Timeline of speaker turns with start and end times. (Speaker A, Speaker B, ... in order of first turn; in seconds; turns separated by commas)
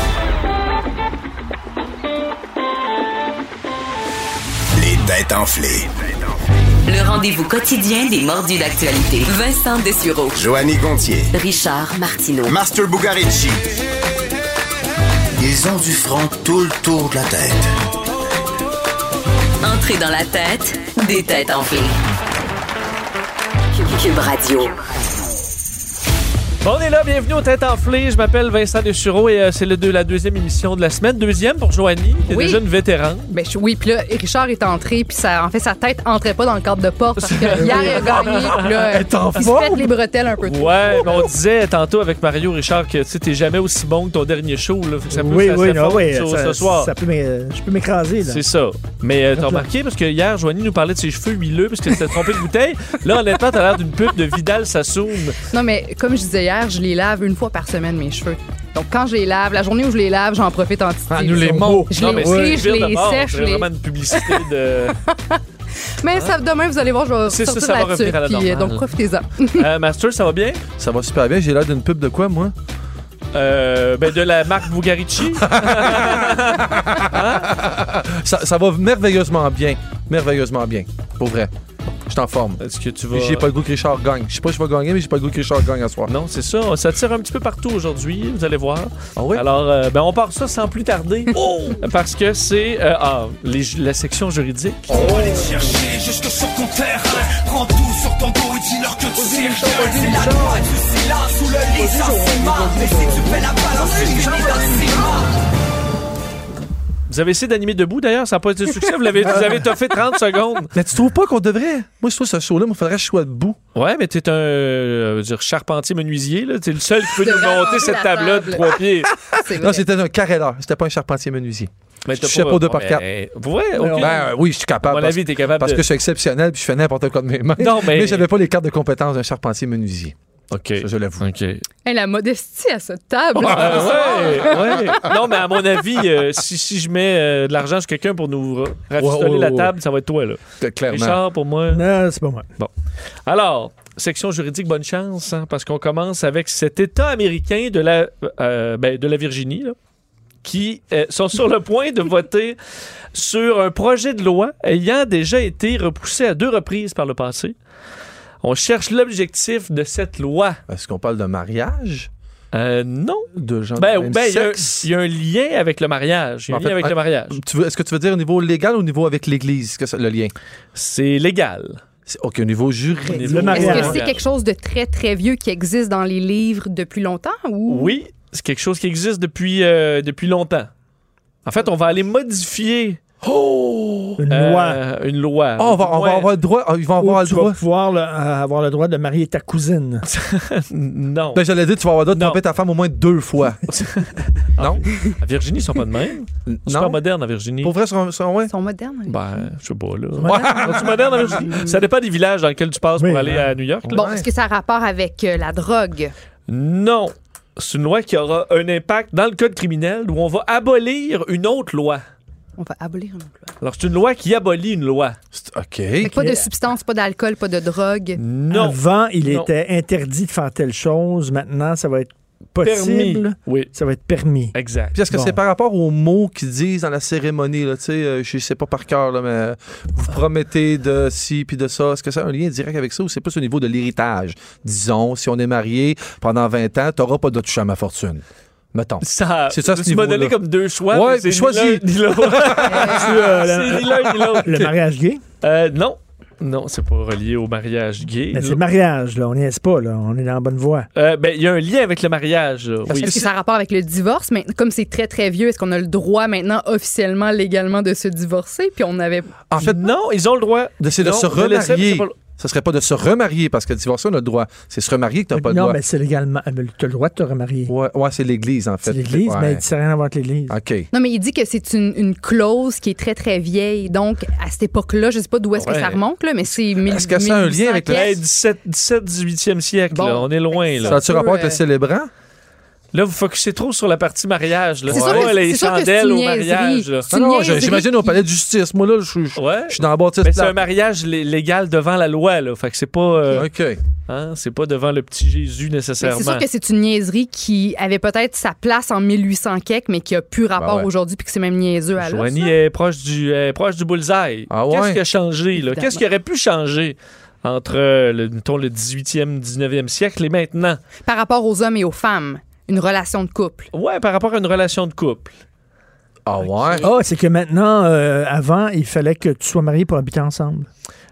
Speaker A: 4.8-5.9, Speaker B: 6.9-10.4, Speaker A: 10.3-11.3, Speaker B: 11.3-12.6, Speaker A: 12.5-13.7, Speaker A: 15.4-17.7, Speaker B: 19.6-22.0, Speaker B: 23.7-24.8, Speaker C: 26.6-33.3, Speaker D: 32.3-32.6, Speaker D: 33.3-41.1, Speaker C: 37.2-38.8, Speaker E: 37.6-39.9, Speaker C: 40.5-46.9, Speaker F: 45.1-48.4, Speaker C: 48.3-55.4, Speaker F: 49.3-49.7, Speaker D: 55.5-64.5, Speaker E: 61.1-62.6, Speaker F: 61.6-61.9, Speaker C: 61.9-65.0, Speaker D: 65.0-65.4, Speaker D: 66.0-69.7, Speaker C: 67.3-68.9, Speaker C: 69.5-70.6, Speaker E: 70.8-72.5, Speaker C: 73.3-77.6, Speaker E: 75.3-81.5, Speaker E: 82.1-86.1, Speaker C: 82.6-83.5, Speaker C: 86.1-95.1, Speaker E: 89.2-89.5, Speaker E: 91.3-91.8, Speaker G: 94.9-105.2, Speaker E: 94.9-95.3, Speaker C: 107.1-110.7, Speaker E: 110.7-113.6, Speaker C: 113.8-119.2, Speaker D: 117.1-119.9, Speaker E: 119.3-123.0, Speaker C: 122.0-124.2, Speaker F: 123.8-124.1, Speaker E: 124.0-130.2, Speaker C: 124.8-125.8, Speaker C: 127.6-128.3, Speaker C: 130.5-131.7, Speaker E: 130.8-131.3, Speaker D: 131.8-135.0, Speaker C: 133.4-141.8, Speaker E: 133.4-135.1, Speaker E: 139.0-139.7, Speaker E: 140.6-141.2, Speaker F: 141.7-142.5, Speaker C: 143.3-149.8, Speaker C: 150.4-152.6, Speaker C: 153.2-157.6, Speaker C: 158.4-160.6, Speaker E: 160.7-162.1, Speaker C: 162.5-167.4, Speaker E: 163.3-164.9, Speaker E: 166.5-170.3, Speaker C: 170.8-171.8, Speaker E: 172.1-173.9, Speaker C: 173.1-174.2, Speaker D: 173.1-178.0, Speaker F: 173.3-174.0, Speaker C: 177.7-180.7, Speaker C: 181.4-183.0, Speaker E: 183.2-184.2, Speaker F: 184.2-184.8, Speaker C: 184.3-186.3, Speaker E: 185.6-187.6, Speaker F: 187.0-190.1, Speaker C: 190.1-191.4, Speaker E: 191.3-193.6, Speaker C: 192.1-192.4, Speaker C: 193.7-197.7, Speaker E: 194.6-194.8, Speaker E: 196.5-197.0, Speaker E: 197.6-198.5, Speaker D: 198.5-199.2, Speaker C: 199.1-204.1, Speaker F: 200.2-200.6, Speaker E: 200.2-201.5, Speaker D: 201.2-201.8, Speaker F: 203.0-203.5, Speaker E: 203.9-204.2, Speaker D: 203.9-206.1, Speaker C: 206.5-212.0, Speaker D: 212.6-213.5, Speaker C: 213.6-215.2, Speaker E: 215.3-216.2, Speaker D: 216.0-218.2, Speaker F: 216.1-216.4, Speaker C: 218.2-219.5, Speaker F: 218.5-224.5, Speaker C: 222.6-223.7, Speaker C: 224.5-225.0, Speaker E: 224.9-240.4, Speaker F: 225.1-225.4, Speaker C: 239.0-244.7, Speaker E: 240.9-243.1, Speaker D: 242.7-243.1, Speaker F: 242.8-245.2, Speaker C: 245.4-248.6, Speaker F: 248.3-250.9, Speaker C: 250.9-253.3, Speaker D: 253.0-259.5, Speaker E: 259.5-259.9, Speaker C: 259.6-262.2, Speaker E: 260.8-265.8, Speaker F: 265.3-267.7, Speaker E: 267.7-269.6, Speaker F: 268.9-270.6, Speaker E: 270.5-270.9, Speaker D: 270.9-278.2, Speaker C: 275.6-276.0, Speaker E: 276.8-278.1, Speaker C: 277.9-281.0, Speaker D: 279.9-281.6, Speaker E: 280.8-282.1, Speaker C: 282.9-287.1, Speaker D: 284.9-288.2, Speaker E: 284.9-285.4, Speaker E: 287.1-290.6, Speaker C: 289.4-293.5, Speaker E: 293.3-293.8, Speaker C: 294.1-296.4, Speaker D: 296.0-302.6, Speaker E: 300.6-300.9, Speaker C: 302.0-310.8, Speaker E: 304.5-305.0, Speaker D: 305.6-306.0, Speaker D: 311.1-313.7, Speaker C: 313.7-315.3, Speaker E: 316.3-316.9, Speaker C: 316.5-316.8, Speaker F: 316.8-320.7